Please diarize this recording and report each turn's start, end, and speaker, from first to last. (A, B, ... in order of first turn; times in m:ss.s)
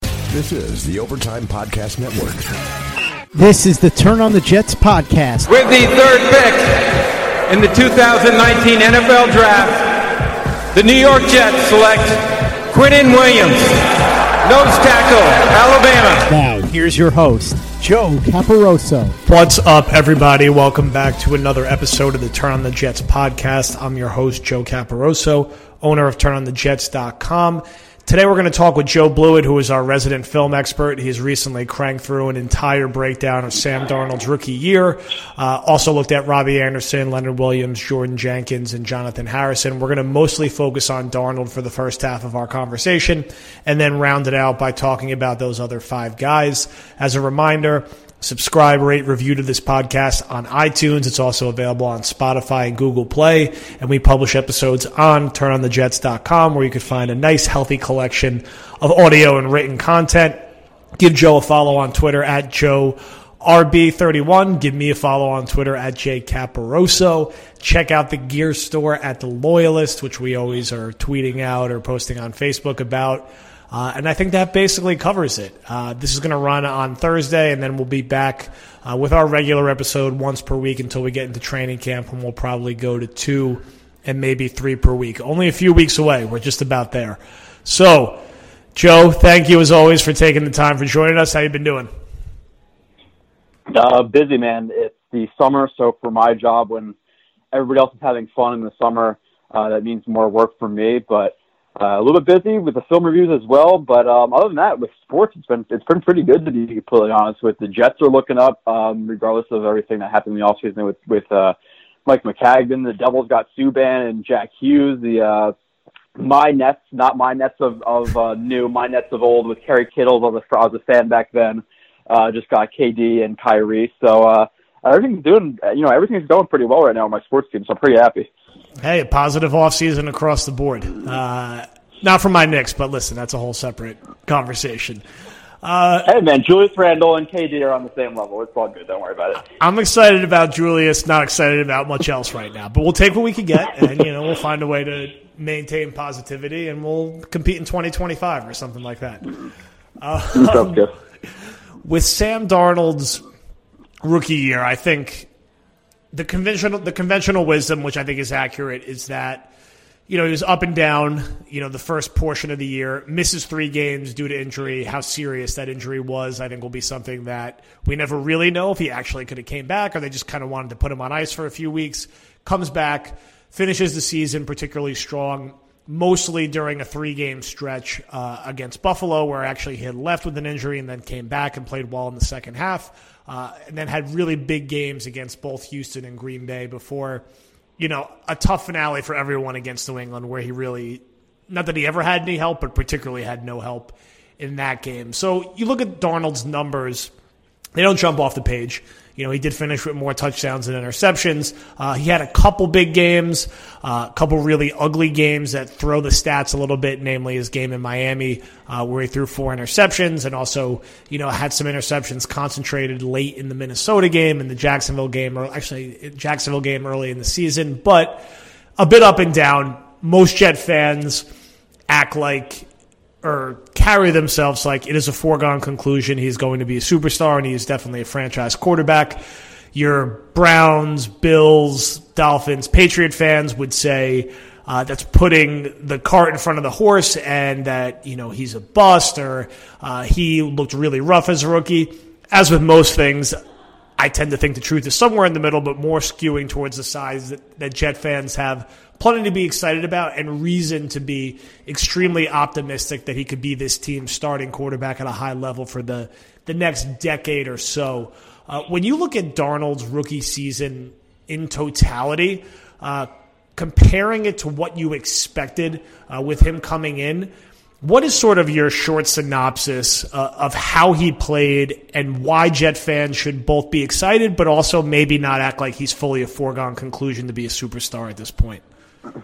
0:00.3-0:02.6 A
0:03.3-0:05.5 B
0:05.5-0:13.9 C
0:14.4-0:16.3 C
0:16.3-0:19.2 B
0:19.2-1:00.4 D
1:01.0-1:28.2 D
1:28.7-1:31.9 D
1:33.7-1:37.0 E
1:37.5-1:51.6 E
1:52.1-1:55.5 E
1:56.2-2:08.3 E
2:08.8-2:15.0 D
2:15.6-2:16.1 D
2:16.1-2:19.4 E
2:19.6-2:29.4 D
2:30.0-2:30.9 D
2:30.4-2:30.9 E
2:31.8-2:33.2 D
2:34.0-2:35.3 D
2:36.1-2:39.5 D
2:40.1-3:07.2 D
3:07.8-3:17.1 D
3:17.8-3:38.2 D
3:38.8-3:41.3 D
3:41.9-3:42.7 D
3:43.2-3:49.2 D
3:49.7-4:03.4 D
4:04.0-4:38.6 D